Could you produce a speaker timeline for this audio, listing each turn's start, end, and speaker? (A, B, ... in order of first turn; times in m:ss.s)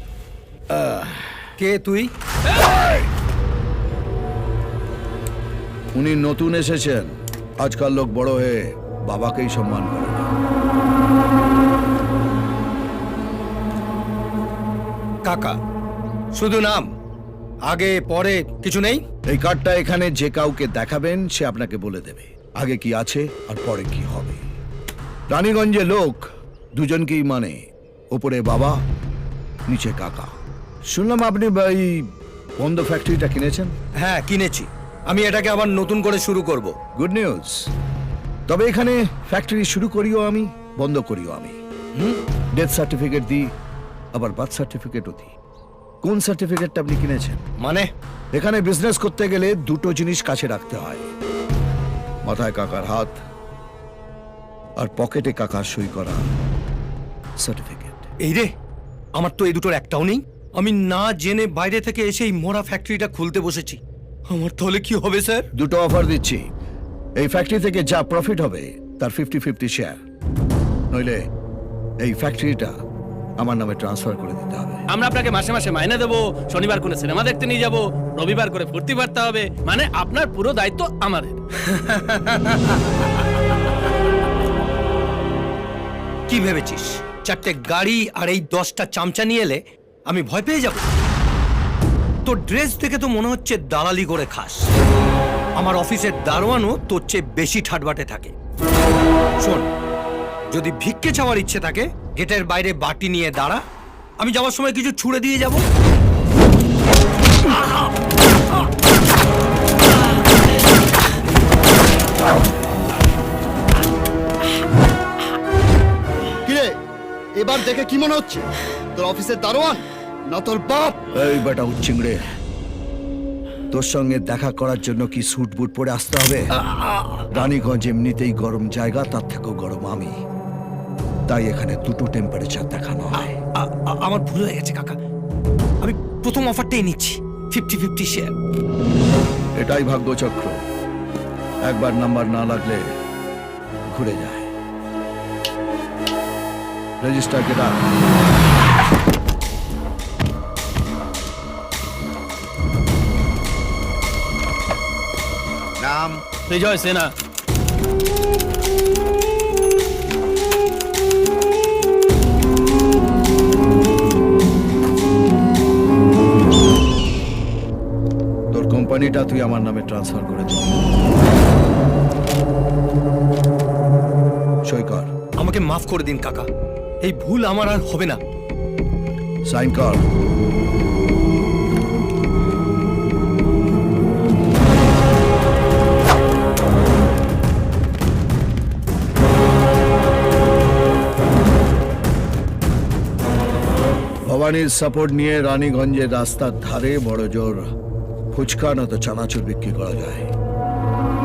0:00.7-0:01.1 A
0:01.6-0:02.1 B
0:05.9-0:10.3 A
0:15.2-0:15.6 B
0:16.3-0:16.9 B
0:17.6-0:19.0 B
0:19.2-0:24.4 A
0:25.3-0:28.8 A
0:29.7-0:30.3 A
0:30.9-0:32.1 A
0:32.6-0:33.7 A
0:34.0-0:36.8 B
0:36.9-0:37.7 A
0:38.5-0:41.6 A
0:42.5-0:43.5 A
0:44.1-0:45.3 A
0:46.0-0:47.4 A
0:47.6-0:47.9 B
0:48.3-0:51.1 A
0:52.2-0:53.2 A
0:54.8-0:56.3 A
0:57.4-0:58.0 A
0:58.2-0:58.5 B
0:59.1-1:05.5 B
1:05.5-1:06.4 A
1:07.2-1:10.0 A
1:10.9-1:11.2 A
1:12.0-1:12.7 A
1:13.4-1:14.8 A
1:14.9-1:21.4 C
1:21.6-1:23.0 B
1:26.3-1:30.8 B
1:32.2-1:34.7 B
1:35.6-1:38.3 B
1:39.4-1:39.7 B
1:40.5-1:43.6 B
1:44.2-1:45.6 B
1:56.4-1:56.8 D
1:57.3-2:01.0 D
2:01.1-2:02.2 A
2:03.7-2:06.5 A
2:06.7-2:07.3 B
2:07.3-2:10.2 A
2:11.3-2:13.3 A
2:13.1-2:15.0 B
2:15.8-2:18.3 B
2:19.6-2:20.6 A
2:21.6-2:22.9 A
2:23.9-2:24.5 A
2:27.0-2:27.9 A
2:35.8-2:36.2 D
2:36.5-2:37.1 C
2:48.5-2:50.8 A
2:54.6-2:55.1 A
2:55.4-2:56.5 B
2:57.0-2:58.2 B
2:59.4-3:00.0 A
3:14.2-3:17.7 A
3:18.3-3:20.3 A